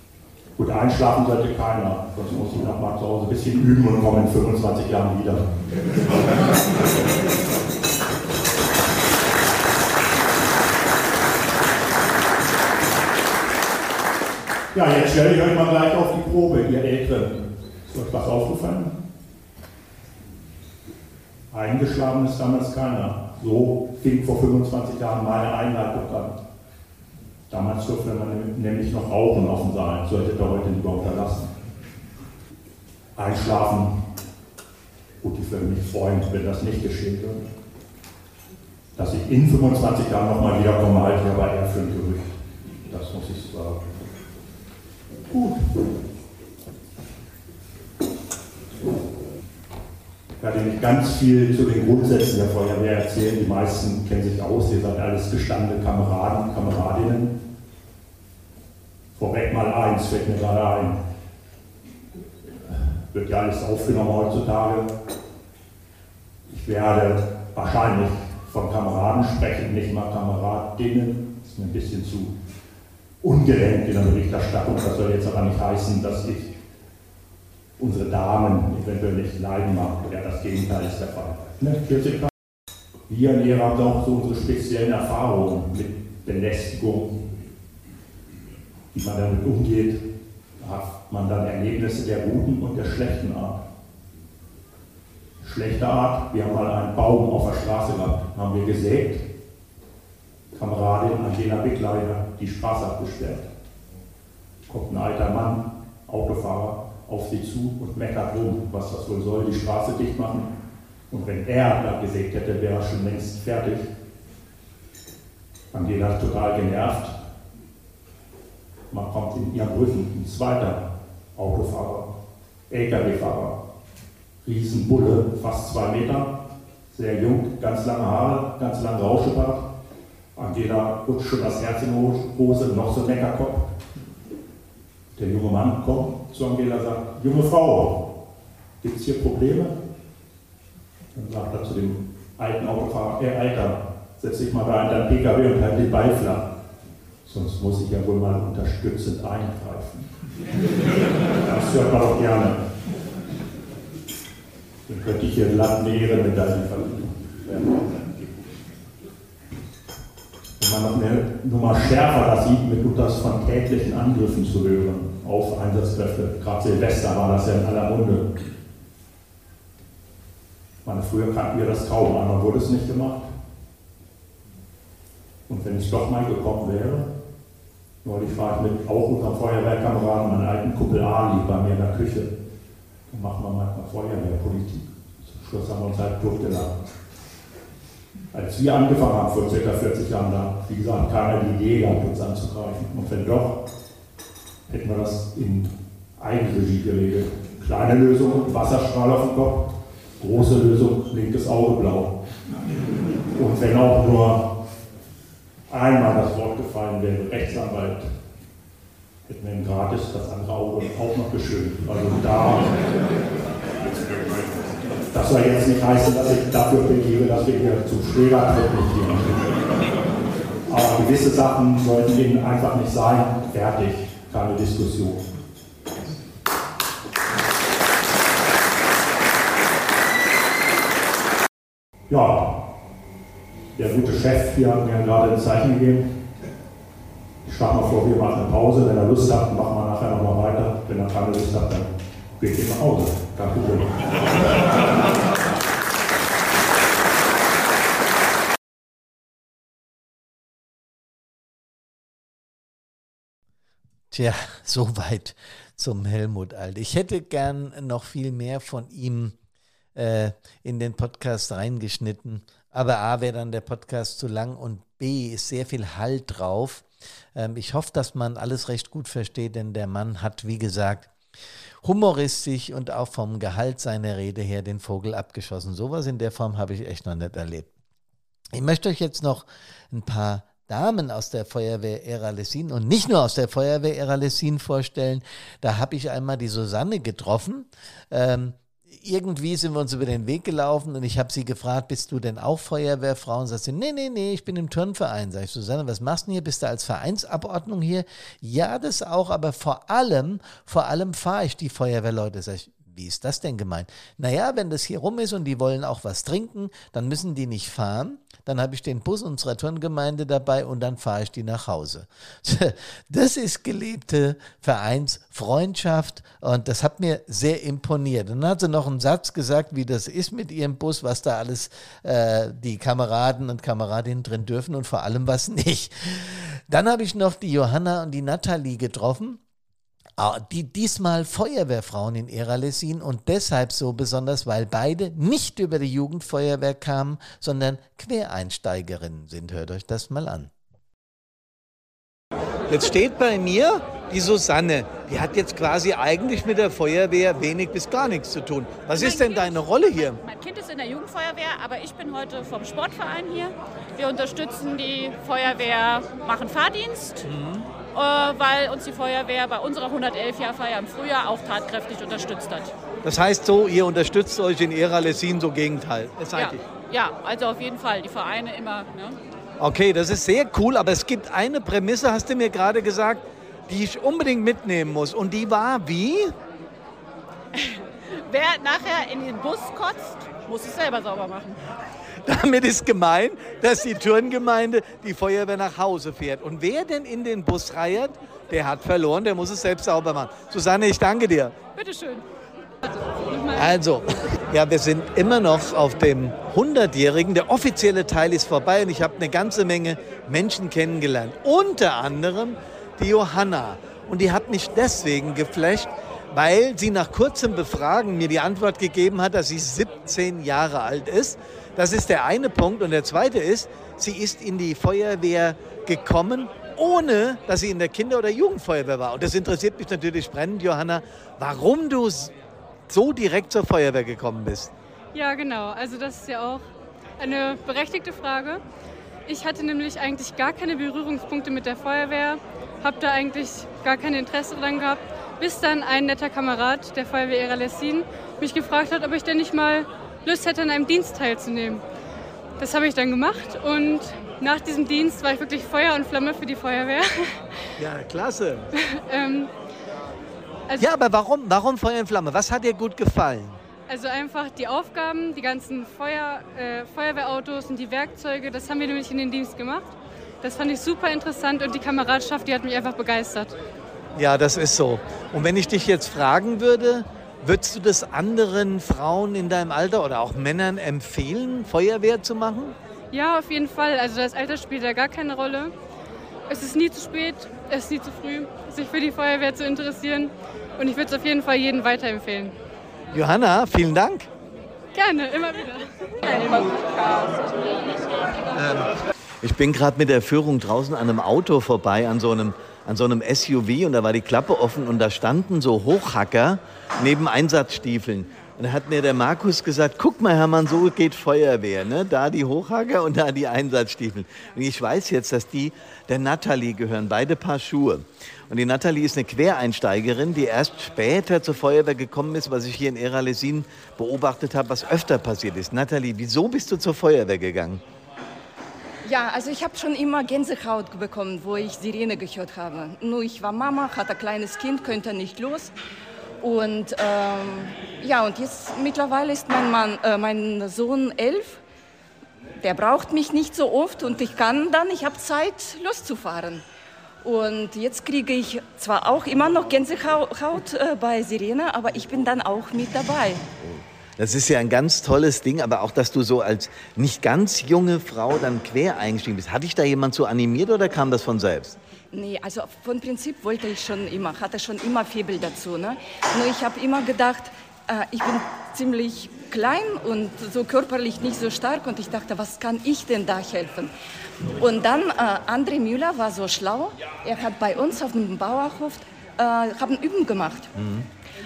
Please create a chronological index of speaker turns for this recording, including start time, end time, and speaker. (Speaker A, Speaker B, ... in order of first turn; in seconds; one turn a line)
Speaker A: 0.6-5.4
Speaker A: 14.7-18.9
Speaker A: 21.5-26.3
Speaker A: 27.5-31.5
Speaker A: 33.2-34.0
Speaker A: 35.2-37.5
Speaker A: 39.0-43.9
Speaker A: 45.3-45.7
Speaker A: 50.4-57.4
Speaker A: 59.1-61.0
Speaker A: 62.7-64.9
Speaker A: 66.5-72.3
Speaker A: 73.2-76.5
Speaker A: 77.8-82.3
Speaker A: 83.1-87.1
Speaker A: 88.9-90.0
Speaker A: 90.6-93.6
Speaker A: 95.4-99.2
Speaker A: 100.5-103.5
Speaker A: 104.7-110.5
Speaker A: 111.1-113.9
Speaker A: 115.7-117.2
Speaker A: 118.9-120.8
Speaker A: 121.3-122.1
Speaker A: 122.7-123.5
Speaker A: 124.4-126.3
Speaker A: 126.9-129.7
Speaker A: 130.4-133.7
Speaker A: 135.2-138.0
Speaker A: 138.8-139.7
Speaker A: 141.1-146.5
Speaker A: 147.2-150.1
Speaker A: 151.4-152.6
Speaker A: 154.9-157.9
Speaker A: 160.6-168.2
Speaker A: 170.8-173.3
Speaker A: 175.5-177.1
Speaker A: 178.0-182.3
Speaker A: 183.1-186.8
Speaker A: 188.3-193.6
Speaker A: 194.7-202.1
Speaker A: 203.4-204.4
Speaker A: 205.7-208.1
Speaker A: 209.3-212.7
Speaker A: 215.1-219.4
Speaker A: 220.7-225.2
Speaker A: 232.1-232.6
Speaker A: 233.8-236.1
Speaker A: 237.4-244.0
Speaker B: 254.1-259.4
Speaker B: 260.0-271.1
Speaker B: 271.8-277.7
Speaker B: 278.6-329.4
Speaker B: 330.2-340.5
Speaker B: 342.7-350.2
Speaker C: 348.9-357.2
Speaker B: 357.2-357.7
Speaker C: 357.9-362.7
Speaker B: 363.0-366.6
Speaker C: 366.3-369.2
Speaker B: 369.6-376.4
Speaker C: 377.6-381.6
Speaker B: 382.2-391.6
Speaker C: 391.8-392.2
Speaker D: 393.2-393.8
Speaker B: 393.5-422.3
Speaker B: 422.9-424.7
Speaker D: 425.1-426.6
Speaker D: 427.2-428.6
Speaker D: 429.3-441.8
Speaker D: 442.6-447.4
Speaker B: 447.8-448.7
Speaker D: 448.8-449.5
Speaker B: 450.8-453.6
Speaker D: 453.9-463.5
Speaker B: 464.2-472.8
Speaker D: 473.1-475.7
Speaker D: 476.5-482.5
Speaker B: 483.1-484.3
Speaker D: 484.9-486.1
Speaker C: 486.2-487.7
Speaker B: 488.5-488.9
Speaker B: 489.4-517.8
Speaker E: 519.0-525.7
Speaker E: 526.4-531.6
Speaker E: 532.6-536.6
Speaker E: 537.2-543.4
Speaker B: 543.6-551.8
Speaker E: 552.1-563.9
Speaker E: 564.6-570.7
Speaker B: 570.8-571.1